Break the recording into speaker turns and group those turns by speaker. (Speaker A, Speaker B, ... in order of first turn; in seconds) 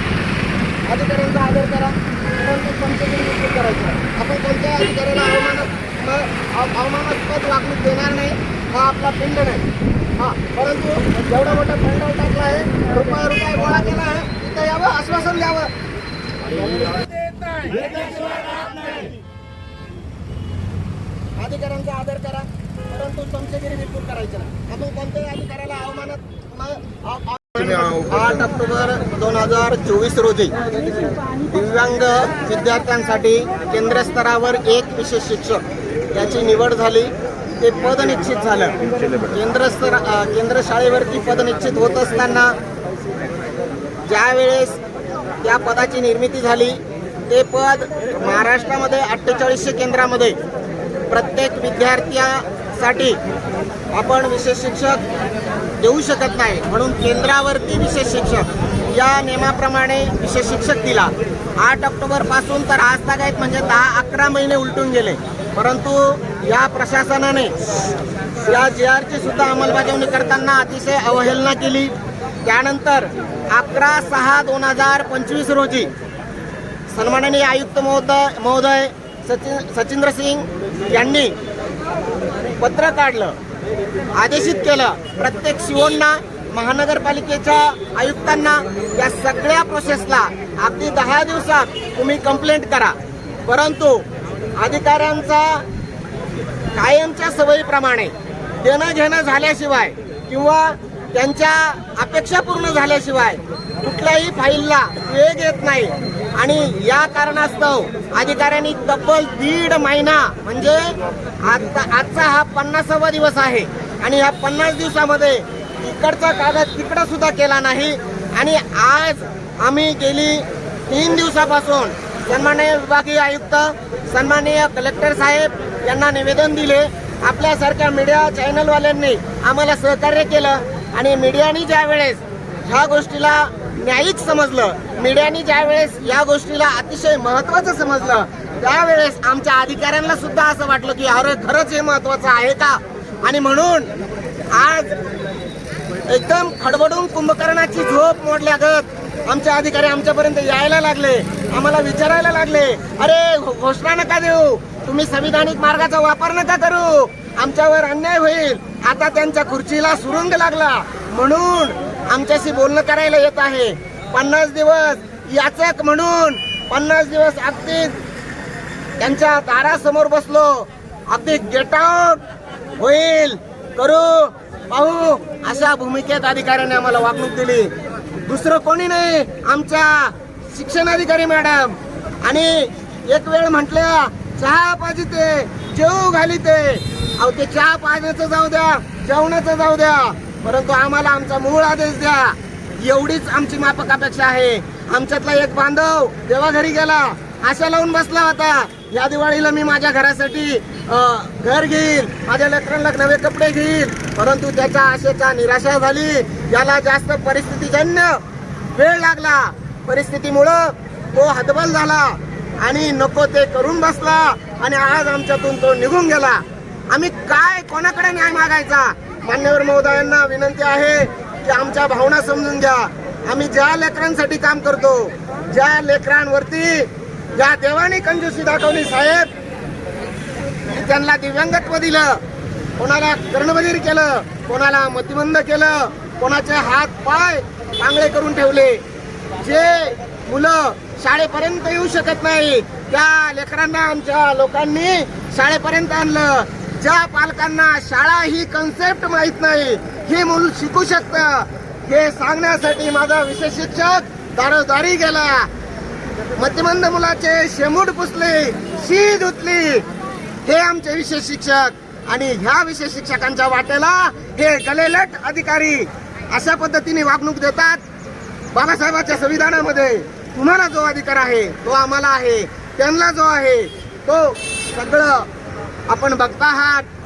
Speaker A: 0.9-9.7, 10.2-15.7, 17.5-19.0, 21.4-42.5, 44.1-44.8, 45.4-50.4, 51.1-53.2, 53.9-55.0, 55.8-67.5, 68.5-71.9, 72.4-75.9, 76.9-81.3, 82.6-83.4, 84.2-94.1, 94.6-95.7, 96.7-143.9, 144.5-145.0, 146.1-168.0, 169.0-172.2, 172.8-229.3, 230.7-232.2, 232.8-238.8, 239.4-255.5, 256.4-259.9, 260.4-267.8, 268.5-275.3, 275.9-276.9